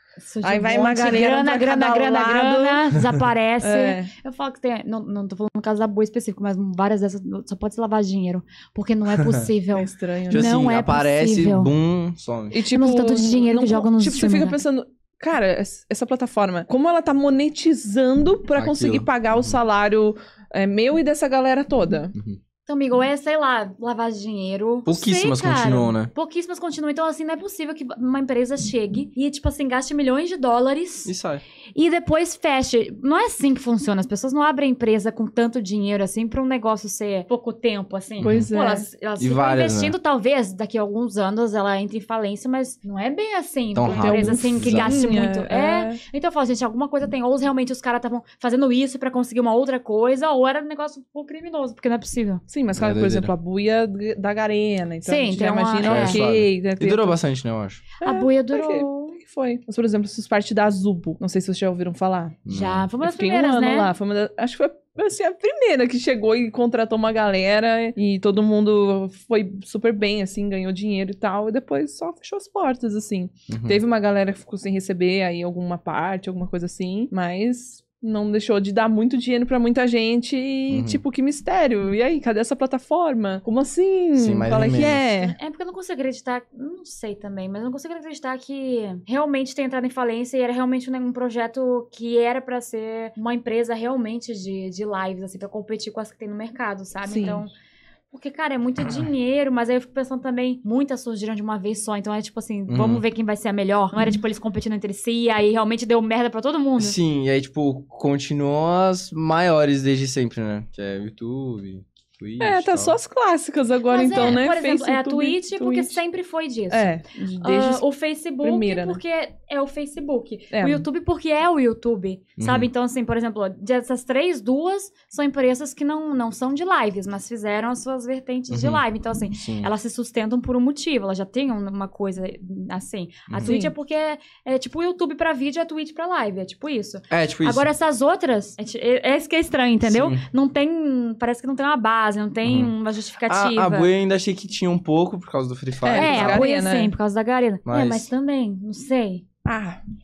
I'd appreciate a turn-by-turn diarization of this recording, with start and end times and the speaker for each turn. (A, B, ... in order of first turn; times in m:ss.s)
0:00.2-0:11.7 A
0:00.4-0:02.9 B
0:03.6-0:04.1 B
0:09.7-0:10.5 B
0:10.3-0:12.6 C
0:12.5-0:22.1 B
0:12.7-0:14.6 A
0:18.6-0:19.6 C
0:22.6-0:31.1 A
0:24.8-0:26.1 C
0:31.0-0:31.4 C
0:31.8-0:52.4 A
0:38.2-0:38.5 C
0:38.2-0:38.9 B
0:39.2-0:40.0 C
0:43.7-0:45.2 C
0:43.8-0:46.0 B
0:52.5-0:57.2 B
0:52.7-0:53.3 C
0:55.0-0:56.2 A
0:55.8-0:57.8 C
0:58.0-1:02.4 B
0:58.0-0:59.2 A
1:02.4-1:02.9 C
1:02.5-1:03.9 A
1:03.0-1:25.4 B
1:13.5-1:13.8 C
1:20.7-1:21.0 C
1:24.2-1:25.1 C
1:25.2-1:37.5 A
1:37.0-1:37.4 B
1:38.1-1:47.0 A
1:42.7-1:43.0 C
1:46.8-1:53.0 C
1:52.4-1:56.0 B
1:53.9-2:23.9 A
1:56.7-1:57.8 B
1:58.4-1:59.0 B
2:00.5-2:00.9 B
2:02.4-2:02.7 C
2:08.5-2:08.8 C
2:09.3-2:09.7 C
2:13.3-2:13.5 C
2:13.4-2:13.7 B
2:17.1-2:17.7 C
2:19.8-2:20.2 C
2:22.4-2:22.7 C
2:23.2-2:26.4 C
2:25.8-2:26.9 B
2:25.9-2:29.2 A
2:27.6-2:28.1 C
2:29.4-2:29.8 B